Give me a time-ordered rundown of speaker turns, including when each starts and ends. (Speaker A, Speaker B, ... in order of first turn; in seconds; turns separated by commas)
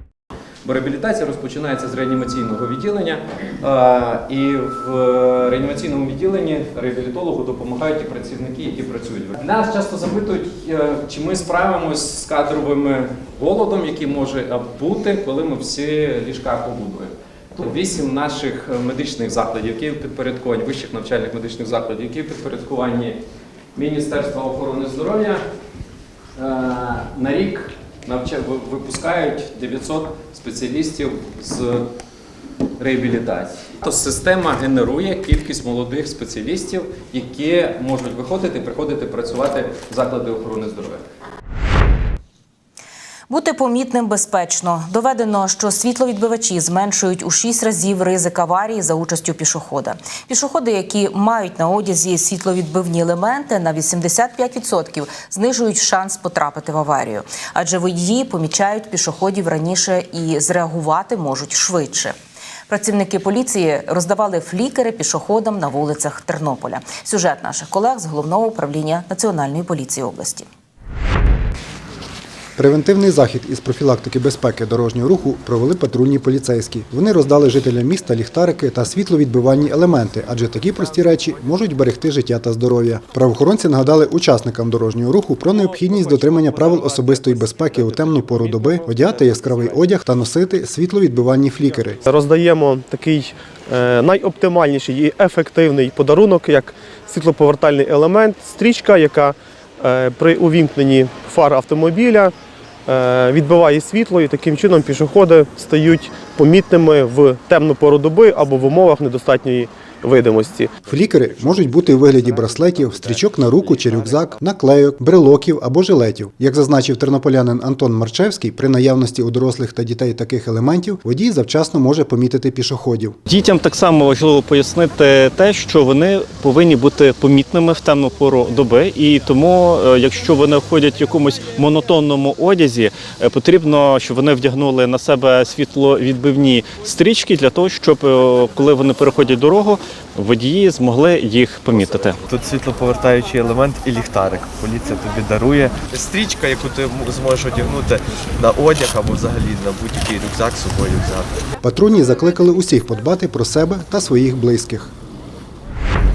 Speaker A: 0.7-23.2, Speaker A: 23.8-25.4, Speaker A: 26.4-31.9, Speaker A: 32.8-41.0, Speaker B: 43.3-62.1, Speaker B: 62.7-70.5, Speaker C: 72.6-92.0, Speaker D: 92.0-102.3, Speaker D: 102.9-110.8, Speaker C: 110.9-123.2, Speaker E: 123.3-142.2, Speaker F: 142.0-151.3, Speaker C: 151.6-154.9